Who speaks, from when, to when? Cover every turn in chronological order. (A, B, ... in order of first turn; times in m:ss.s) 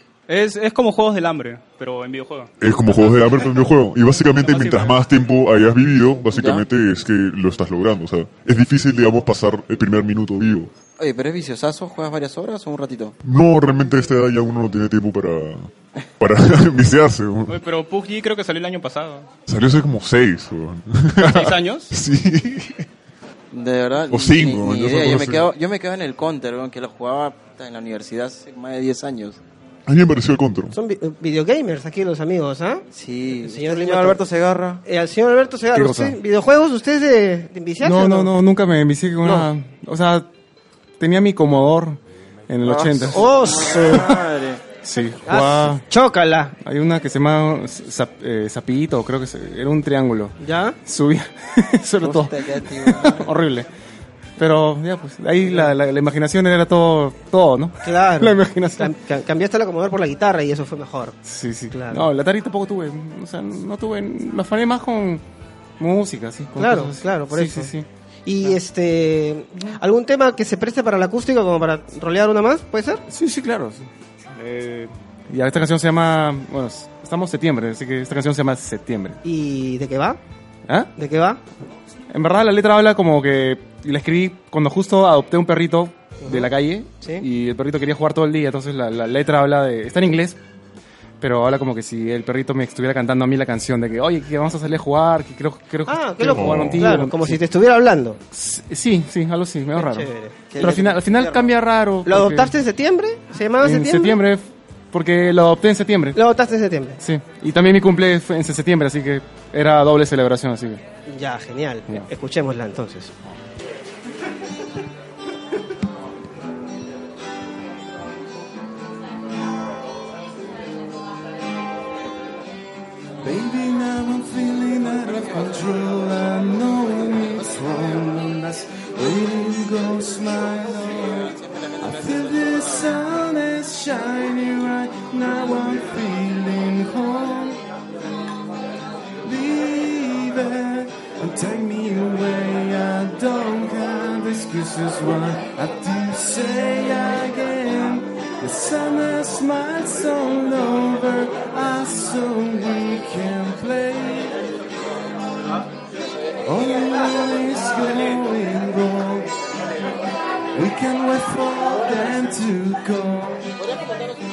0:00.3-0:02.5 A
0:02.6-0:10.7 B
0:04.4-0:04.9 A
0:06.3-0:06.6 C
0:11.0-0:13.1 C
0:13.2-0:17.6 B
0:17.5-0:19.3 A
0:19.4-0:22.9 B
0:21.2-0:21.9 A
0:23.5-0:29.4 C
0:24.1-0:25.5 B
0:29.8-0:30.7 B
0:30.7-0:32.8 D
0:32.9-0:34.8 C
0:33.4-0:34.2 D
0:34.8-0:38.3 D
0:35.7-0:36.2 E
0:37.8-0:40.3 E
0:39.2-0:39.5 D
0:41.0-0:44.0 E
0:42.6-0:44.6 C
0:43.0-0:44.1 D
0:44.8-0:45.8 E
0:45.2-0:46.5 D
0:46.6-0:53.7 E
0:50.4-0:50.8 D
0:52.0-0:53.3 C
0:54.4-0:58.9 E
0:57.8-1:01.2 D
1:01.2-1:05.2 E
1:01.7-1:02.0 D
1:05.8-1:07.8 E
1:06.6-1:07.7 D
1:08.2-1:13.0 D
1:13.1-1:19.2 E
1:19.2-1:20.2 D
1:21.0-1:21.4 D
1:22.1-1:30.4 E
1:26.2-1:26.5 D
1:31.2-1:37.4 E
1:35.9-1:38.2 D
1:36.3-1:36.9 B
1:38.3-1:42.5 E
1:39.7-1:40.4 D
1:40.5-1:41.5 C
1:42.0-1:44.2 D
1:43.6-1:46.2 E
1:46.1-1:47.0 D
1:47.0-1:50.8 E
1:51.1-1:53.1 D
2:03.2-2:17.6 F
2:19.2-2:34.4 F
2:36.4-2:39.6 F
2:40.5-2:43.5 F